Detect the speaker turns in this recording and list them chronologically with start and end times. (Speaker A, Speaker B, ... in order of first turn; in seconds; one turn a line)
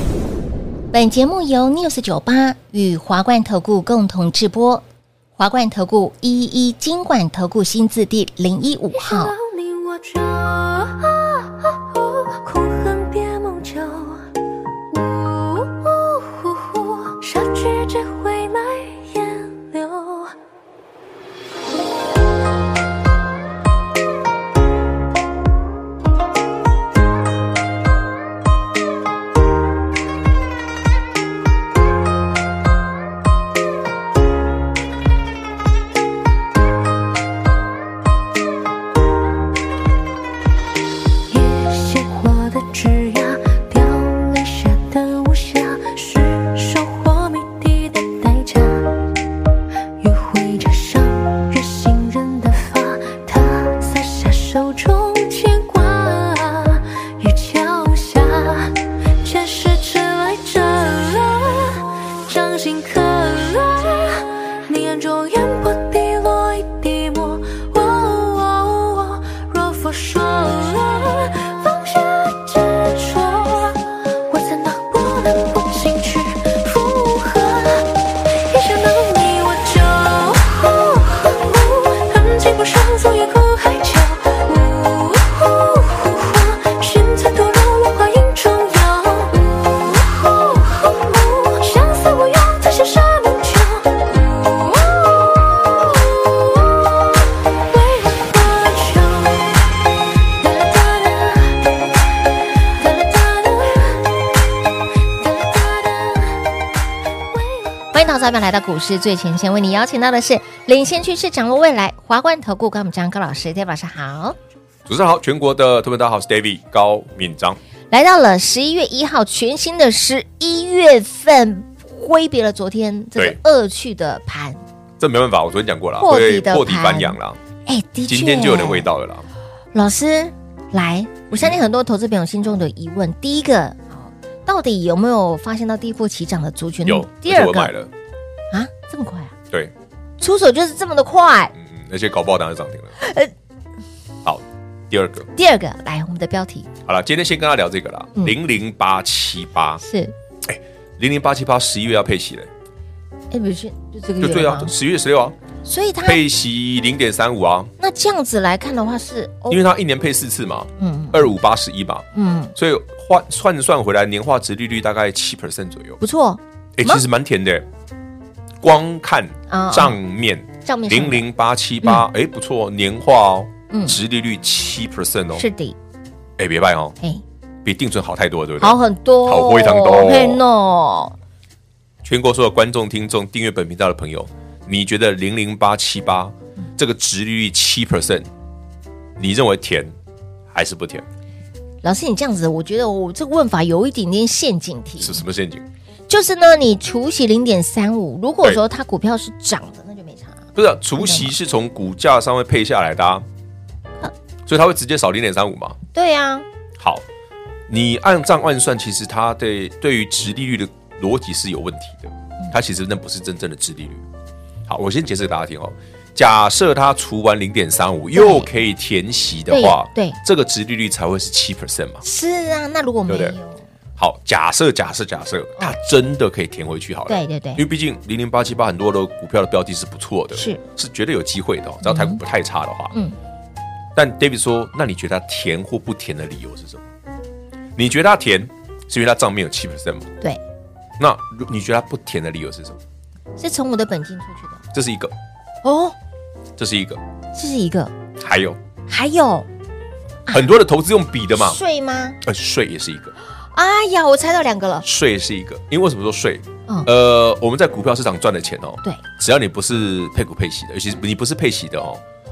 Speaker A: 0.9-4.8
Speaker A: 5.4-9.3
Speaker B: 8.9-14.3
Speaker B: 14.9-20.4
Speaker B: 41.3-49.0
Speaker B: 50.0-99.7
Speaker B: 100.4-104.1
Speaker B: 105.2-106.4
Speaker B: 107.3-107.7
Speaker A: 107.9-114.4
Speaker C: 114.9-117.6
Speaker A: 117.9-124.6
Speaker C: 125.0-127.4
Speaker A: 126.0-128.9
Speaker C: 128.1-129.3
Speaker A: 129.7-137.7
Speaker C: 131.3-131.6
Speaker C: 136.8-137.9
Speaker A: 138.5-139.3
Speaker A: 140.2-141.5
Speaker C: 141.6-142.9
Speaker A: 143.0-143.3
Speaker C: 144.2-145.3
Speaker A: 145.4-146.7
Speaker C: 146.9-149.8
Speaker A: 149.8-150.1
Speaker C: 150.4-152.5
Speaker A: 153.3-154.7
Speaker C: 154.2-155.4
Speaker A: 155.7-156.2
Speaker C: 156.0-157.7
Speaker A: 157.8-159.6
Speaker C: 159.5-166.0
Speaker A: 160.8-161.3
Speaker A: 162.1-162.5
Speaker A: 166.0-167.0
Speaker C: 166.8-167.7
Speaker C: 168.6-175.5
Speaker A: 169.5-170.0
Speaker A: 170.7-171.3
Speaker A: 173.7-174.0
Speaker A: 175.3-175.8
Speaker C: 176.4-177.0
Speaker C: 177.6-180.4
Speaker A: 178.6-181.2
Speaker C: 182.0-188.3
Speaker C: 189.2-189.9
Speaker C: 190.5-191.1
Speaker A: 191.8-195.2
Speaker C: 195.0-195.7
Speaker A: 196.1-201.3
Speaker C: 200.6-203.2
Speaker C: 204.5-205.8
Speaker A: 205.9-206.4
Speaker C: 206.8-207.0
Speaker C: 207.7-214.0
Speaker C: 214.7-222.0
Speaker A: 218.1-218.5
Speaker A: 219.5-220.2
Speaker A: 222.0-223.6
Speaker C: 223.1-223.4
Speaker C: 224.0-232.9
Speaker A: 227.1-227.7
Speaker A: 230.3-230.6
Speaker A: 231.8-232.2
Speaker C: 233.9-236.8
Speaker C: 237.8-240.1
Speaker C: 241.0-242.8
Speaker A: 243.4-244.6
Speaker C: 244.7-245.1
Speaker A: 245.6-246.0
Speaker C: 246.6-247.0
Speaker A: 247.3-247.9
Speaker C: 248.2-248.6
Speaker A: 248.9-249.5
Speaker C: 250.3-251.6
Speaker A: 251.4-252.2
Speaker C: 252.2-253.2
Speaker A: 253.5-254.9
Speaker C: 254.8-262.0